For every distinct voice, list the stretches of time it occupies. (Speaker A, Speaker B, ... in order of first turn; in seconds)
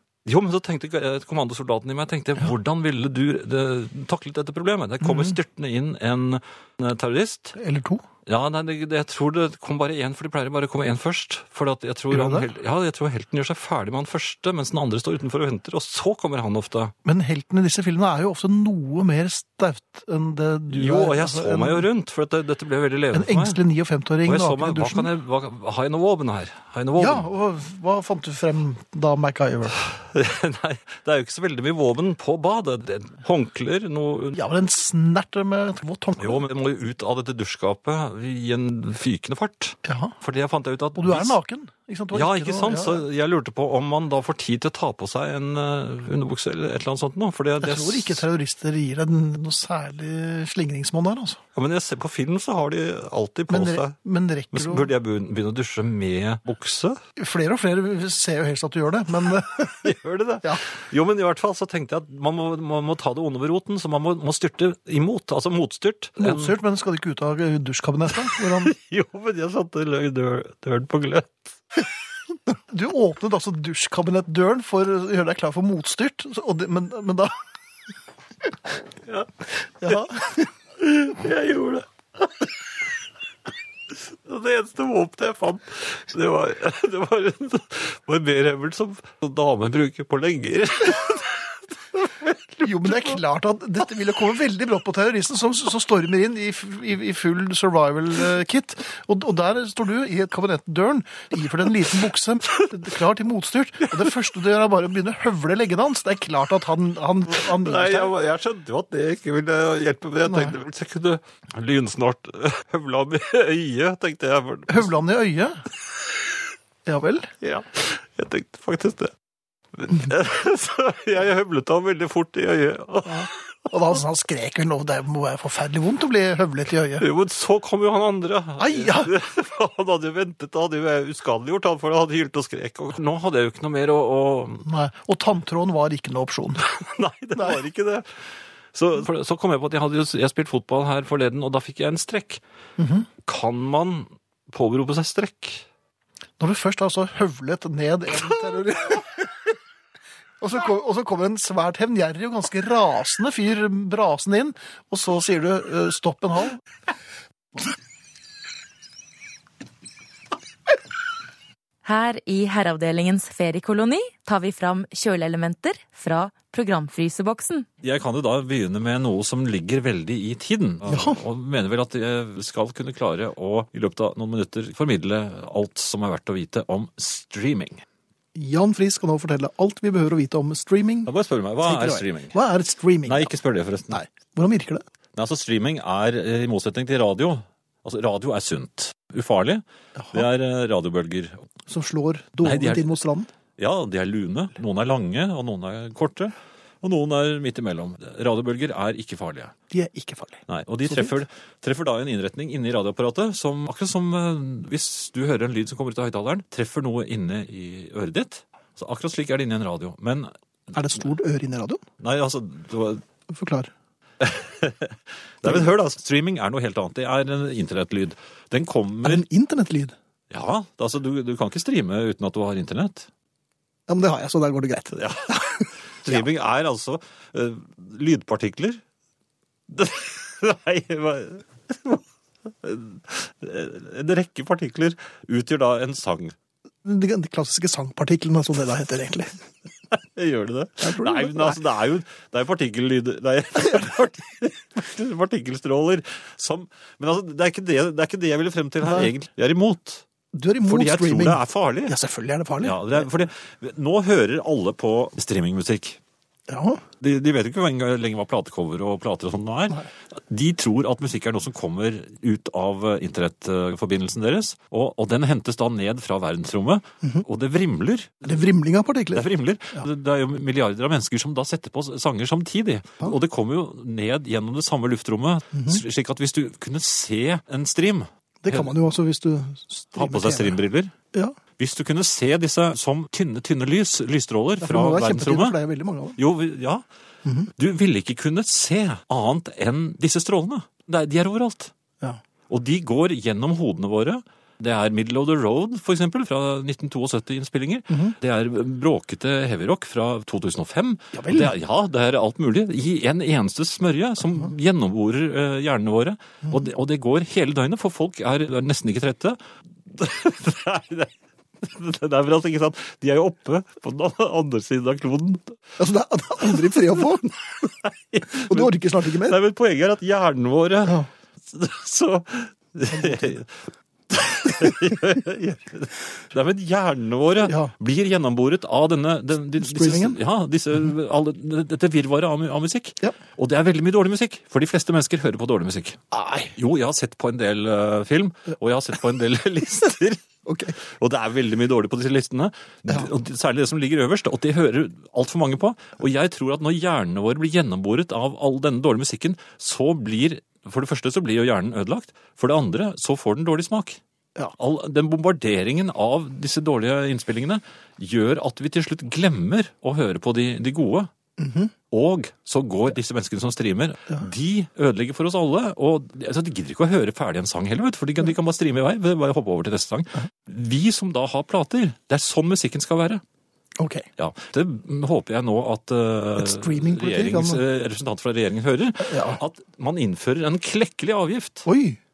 Speaker A: 0.3-7.6, 8.3-16.9, 20.7-23.6, 24.3-27.3, 29.8-34.4, 36.2-41.4, 42.1-48.2, 51.5-54.0, 54.5-57.0, 59.7-66.6, 68.1-71.6, 79.1-80.3, 80.8-82.5, 83.9-93.2, 107.3-114.9, 117.4-119.1, 119.8-124.0, 127.0-134.7, 136.6-138.1, 138.7-142.4, 143.2-145.7, 167.8-177.8, 181.1-182.4, 183.1-184.0, 185.2-191.3, 192.4-192.9, 193.6-199.5, 200.5-210.3, 212.0-213.0, 214.2-219.2, 220.3-223.1, 224.9-228.8, 229.7-236.3, 239.9-250.1, 250.7-251.9, 252.6-256.0, 257.0-268.4, 269.1-278.7, 280.0-280.9, 281.6-285.6, 286.2-286.8, 287.6-291.7, 292.5-309.4, 309.9-315.6, 317.6-323.6, 324.1-336.0, 336.6-340.2, 340.8-354.0, 354.6-361.1, 361.9-373.2, 374.2-381.7
Speaker B: 5.0-5.4, 7.5-8.0, 12.1-12.5, 17.0-21.9, 23.1-25.1, 27.0-29.8, 34.3-36.5, 39.9-40.1, 41.0-43.1, 47.6-51.4, 53.5-54.9, 57.2-60.6, 66.2-68.7, 72.7-77.3, 79.8-80.5, 92.6-108.1, 110.2-110.6, 114.7-115.6, 116.9-117.3, 123.1-127.1, 128.6-129.1, 134.6-136.7, 142.8-143.1, 146.4-149.3, 150.4-156.6, 170.9-171.2, 178.3-181.1, 181.6-183.3, 183.9-184.8, 190.0-190.3, 191.7-193.3, 199.7-201.2, 210.7-211.8, 213.3-213.7, 219.0-219.9, 223.9-226.3, 236.8-239.4, 240.8-241.6, 248.8-249.1, 250.3-253.1, 256.5-256.8, 268.2-269.9, 275.5-275.8, 278.4-280.6, 284.6-286.2, 287.2-287.5, 301.1-301.5, 315.8-317.4, 318.3-319.4, 322.9-323.4, 327.4-327.7, 329.6-330.2, 336.1-336.5, 340.5-340.8, 361.4-361.7, 373.8-374.1, 376.4-377.6, 379.0-379.4, 381.6-382.0
Speaker C: 161.8-167.7